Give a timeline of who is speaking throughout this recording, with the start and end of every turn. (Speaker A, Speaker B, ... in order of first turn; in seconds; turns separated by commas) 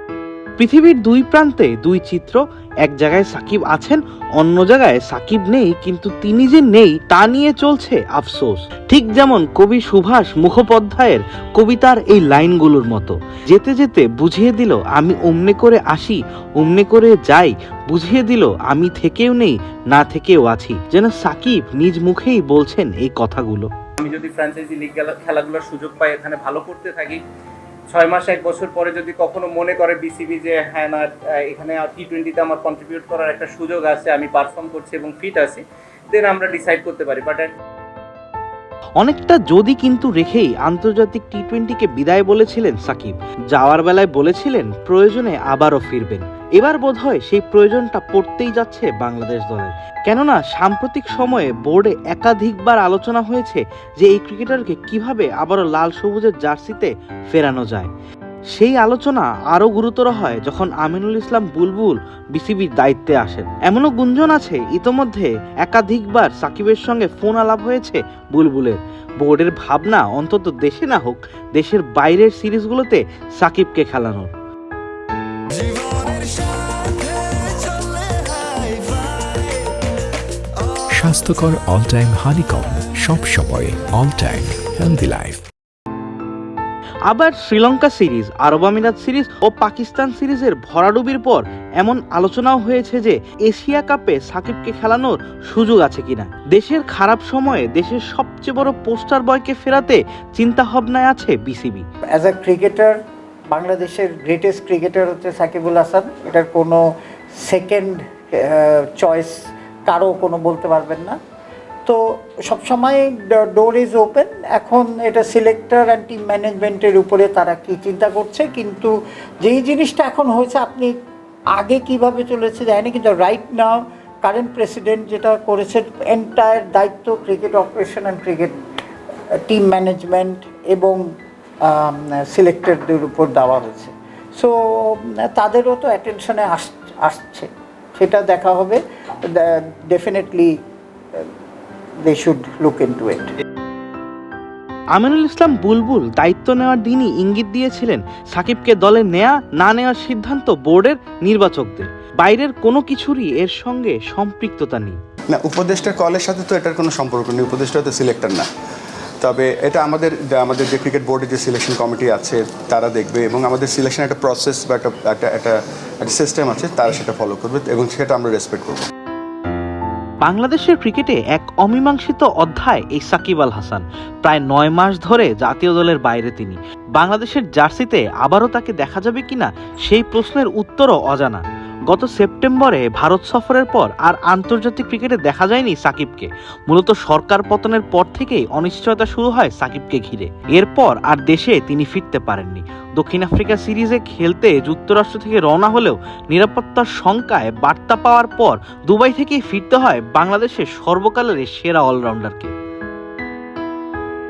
Speaker A: 0.6-23.7, Speaker B: 24.0-27.2, Speaker B: 27.9-37.5, Speaker A: 39.0-57.9, Speaker A: 58.5-74.3, Speaker C: 75.6-79.7, Speaker C: 80.9-85.4, Speaker A: 87.0-101.8, Speaker D: 102.2-103.0, Speaker D: 103.5-106.8, Speaker D: 107.4-109.3, Speaker D: 109.9-111.2, Speaker D: 111.8-120.9, Speaker D: 121.5-128.5, Speaker D: 129.5-131.0, Speaker D: 131.6-140.5, Speaker D: 142.0-143.3, Speaker A: 144.9-155.0, Speaker E: 155.3-158.4, Speaker E: 159.2-168.8, Speaker A: 170.2-202.5